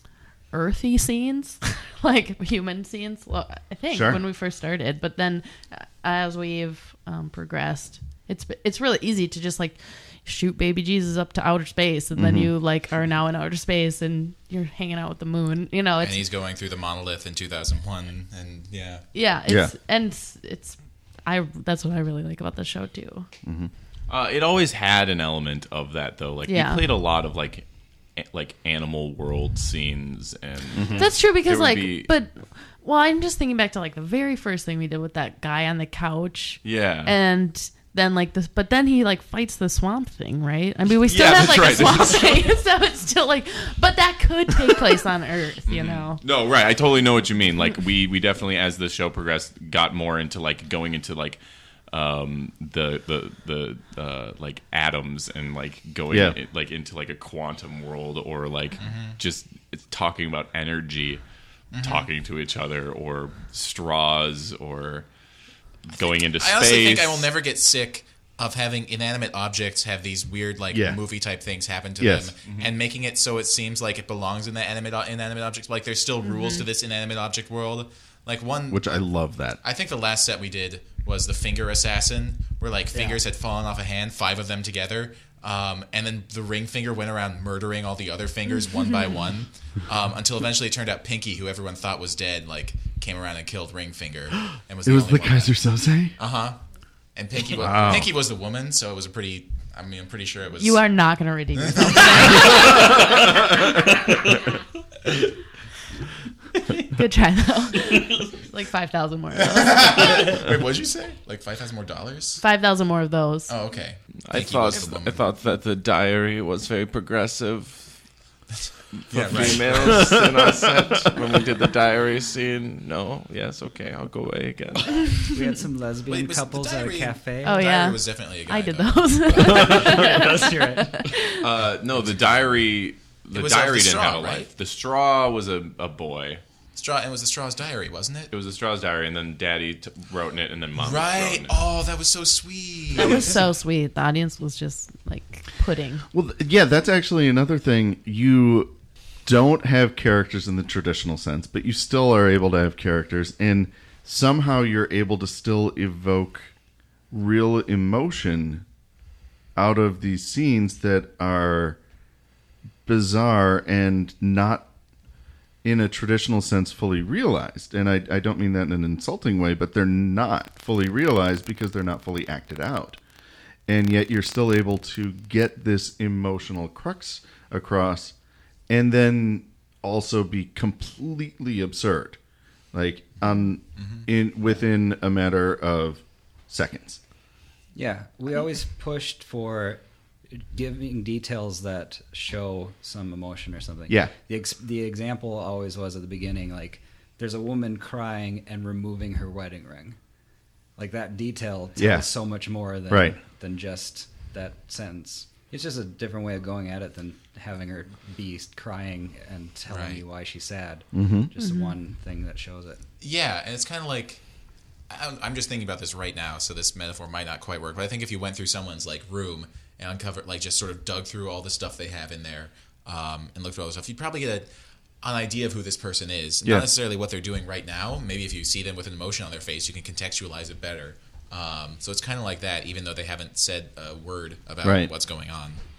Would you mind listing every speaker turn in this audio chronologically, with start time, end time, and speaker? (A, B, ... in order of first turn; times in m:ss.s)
0:00.5-0:16.2 A
0:03.9-0:04.2 B
0:12.2-0:12.5 B
0:16.0-0:19.0 C
0:19.1-0:23.3 A
0:19.5-0:19.7 B
0:23.4-0:23.7 B
0:24.1-0:32.1 D
0:26.5-0:26.9 A
0:30.8-0:31.1 B
0:30.9-0:46.2 A
0:36.6-0:37.1 D
0:41.1-0:42.5 D
0:45.6-0:51.4 D
0:51.9-1:01.2 D
0:56.1-0:56.4 B
0:58.8-0:59.2 C
1:01.7-1:02.1 C
1:01.8-1:05.1 D
1:05.9-1:07.3 D
1:06.0-1:18.9 C
1:10.7-1:11.0 B
1:12.0-1:12.4 B
1:16.3-1:16.6 A
1:18.7-1:19.6 B
1:19.6-1:35.5 C
1:34.8-1:36.1 B
1:36.2-1:36.6 C
1:37.1-1:40.8 C
1:37.6-1:38.1 B
1:40.6-1:42.9 A
1:41.6-1:42.9 C
1:46.8-1:50.1 A
1:49.4-1:52.4 C
1:52.4-1:53.5 A
1:53.5-1:55.3 C
1:54.3-1:57.9 D
1:58.6-2:00.1 C
1:59.0-2:05.0 D
1:59.9-2:01.1 B
2:05.0-2:05.6 A
2:05.3-2:07.6 E
2:06.1-2:10.1 C
2:07.4-2:11.5 A
2:09.4-2:11.1 E
2:11.4-2:16.4 D
2:13.3-2:14.5 C
2:16.8-2:18.3 C
2:18.3-2:21.6 D
2:20.8-2:23.4 C
2:22.9-2:26.0 A
2:26.1-2:28.7 B
2:29.2-2:36.5 B
2:37.1-2:38.6 B
2:39.6-2:41.8 B
2:42.9-2:44.7 B
2:45.6-2:53.0 B
2:53.7-2:58.1 B
2:58.7-3:02.2 B
3:02.7-3:07.0 B
3:03.8-3:04.1 C
3:07.8-3:09.8 E
3:10.4-3:20.0 E
3:13.9-3:14.1 B
3:20.8-3:32.8 E
3:21.8-3:22.1 B
3:22.9-3:23.2 B
3:29.7-3:30.0 C
3:30.9-3:31.3 B
3:31.4-3:31.8 A
3:33.0-3:34.2 C
3:34.9-3:44.5 C
3:45.0-3:55.6 C
3:54.6-3:54.9 B